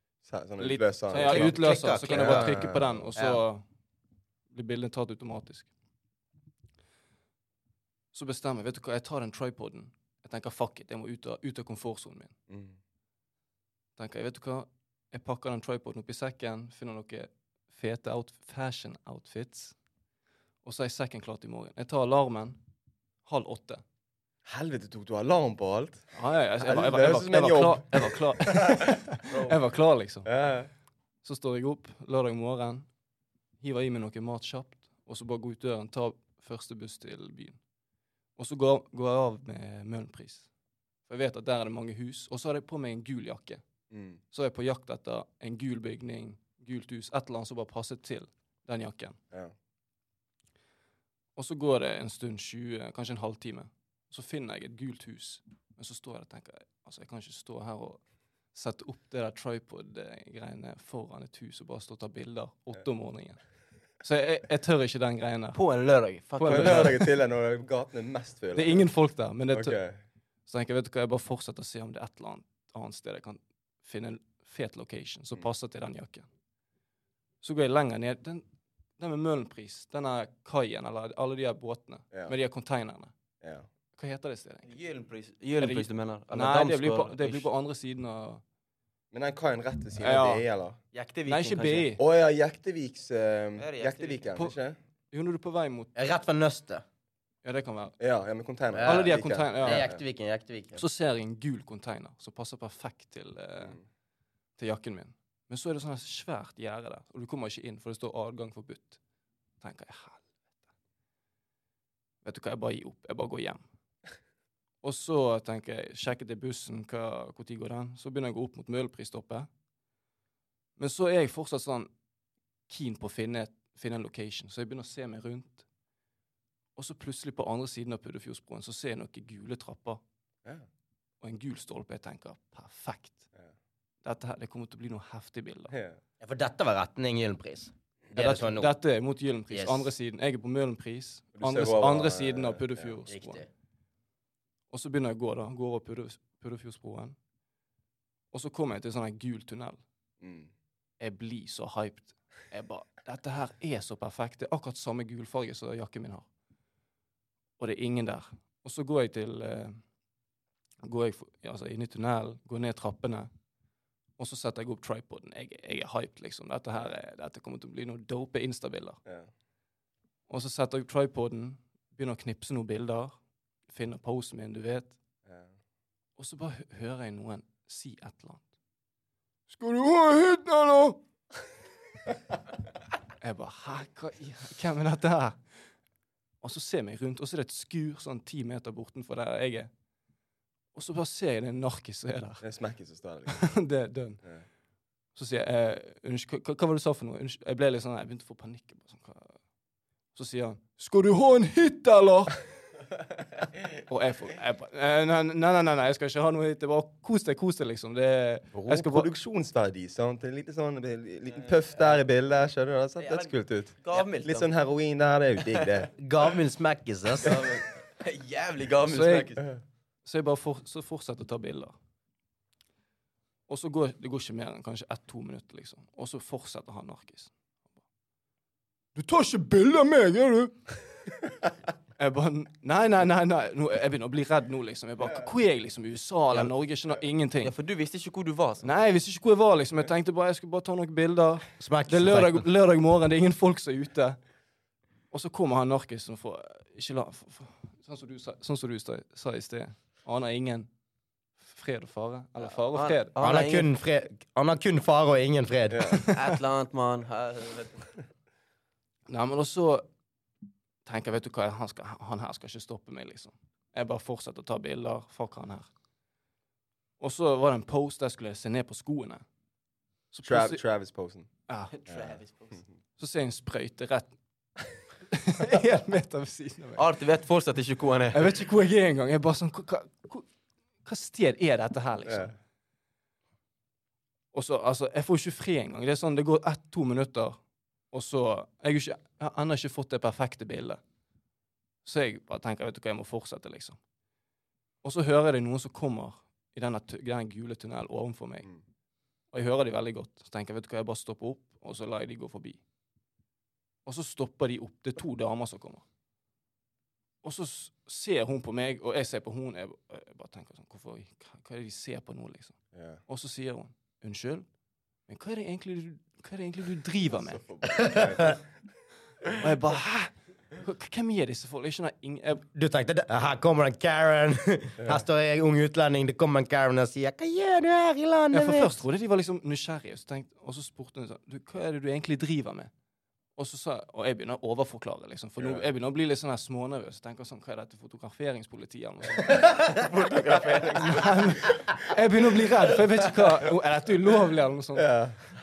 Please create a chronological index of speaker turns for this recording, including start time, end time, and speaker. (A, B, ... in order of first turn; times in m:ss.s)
0:00.2-0:03.1 A
0:00.6-0:03.6 B
0:01.1-0:03.4 C
0:04.5-0:05.7 B
0:08.1-0:12.3 B
0:12.5-0:12.8 A
0:14.0-0:19.8 B
0:20.6-0:22.6 B
0:23.2-0:23.8 B
0:24.5-0:29.3 A
0:26.1-0:30.5 B
0:30.2-0:30.7 A
0:31.2-0:33.0 B
0:33.6-0:37.6 B
0:38.4-0:40.5 B
0:41.0-0:43.6 B
0:43.9-0:44.2 A
0:44.2-0:49.2 B
0:51.4-1:05.6 B
1:05.5-1:07.0 D
1:06.1-1:07.0 B
1:06.5-1:08.9 A
1:08.5-1:09.8 B
1:09.5-1:10.0 A
1:10.5-1:16.3 B
1:17.4-1:18.4 B
1:19.0-1:23.1 B
1:23.4-1:23.7 A
1:23.9-1:24.7 B
1:24.7-1:27.5 D
1:25.6-1:28.4 B
1:29.1-1:30.8 A
1:30.0-1:30.4 B
1:30.9-1:31.9 D
1:31.3-1:32.0 B
1:32.0-1:34.8 A
1:33.6-1:34.3 D
1:35.1-1:35.9 B
1:36.0-1:36.8 C
1:37.4-1:38.0 B
1:38.0-1:40.0 A
1:38.7-1:40.8 C
1:38.8-1:39.9 B
1:40.8-1:43.8 B
1:44.6-1:49.0 B
1:49.6-1:50.3 B
1:52.2-1:53.6 B
1:54.8-1:59.5 B
2:00.8-2:01.9 B
2:02.7-2:05.6 B
2:06.8-2:10.0 B
2:11.2-2:13.3 B
2:14.0-2:15.7 B
2:15.7-2:16.0 A
2:16.2-2:18.7 C
2:18.2-2:23.4 B
2:19.5-2:19.9 C
2:21.4-2:23.0 A
2:23.1-2:23.5 C
2:24.7-2:27.2 B
2:28.3-2:29.8 B
2:30.2-2:30.5 A
2:31.0-2:36.3 B
2:37.6-2:39.8 B
2:40.8-2:43.3 B
2:44.2-2:49.0 B
2:50.3-2:55.0 B
2:55.2-2:55.5 A
2:56.2-2:58.5 B
2:59.5-3:01.0 B
3:03.2-3:05.7 B
3:06.4-3:09.8 B
3:10.7-3:12.4 B
3:12.4-3:13.5 A
3:13.3-3:14.4 B
3:15.1-3:19.4 B
3:20.1-3:22.5 B
3:23.9-3:29.1 B
3:28.5-3:35.9 A
3:31.3-3:32.0 D
3:33.0-3:34.5 D
3:35.5-3:35.9 D
3:36.0-3:37.3 C
3:37.2-3:39.5 D
3:38.9-3:39.4 B
3:40.0-3:41.7 B
3:43.5-3:47.3 B
3:49.0-3:50.8 B
3:52.0-3:57.5 B
3:57.4-3:58.7 D
3:58.6-4:04.2 B
4:01.6-4:02.4 C
4:05.1-4:10.7 B
4:11.4-4:13.2 B
4:12.4-4:13.7 D
4:13.2-4:15.9 C
4:15.7-4:16.0 A
4:16.1-4:18.0 D
4:19.1-4:19.9 B
4:20.8-4:25.7 B
4:27.0-4:29.2 B
4:30.1-4:30.6 B
4:30.2-4:31.3 A
4:31.5-4:31.7 B
4:31.7-4:32.7 D
4:31.9-4:32.2 A
4:33.0-4:36.8 B
4:36.8-4:38.4 D
4:38.1-4:40.3 B
4:40.8-4:42.4 B
4:42.1-4:42.3 A
4:44.3-4:50.8 B
4:51.8-4:53.8 B
4:54.8-4:58.5 B
4:59.3-5:02.6 B
5:03.8-5:05.8 B
5:07.2-5:14.5 B
5:12.7-5:13.0 A
5:15.1-5:17.5 B
5:17.1-5:18.5 A
5:17.7-5:18.4 C
5:19.2-5:22.5 B
5:22.5-5:28.8 C
5:28.3-5:32.7 B
5:33.4-5:39.6 B
5:35.4-5:35.6 A
5:39.7-5:41.6 D
5:40.3-5:40.9 A
5:40.8-5:45.1 B
5:44.8-5:45.2 A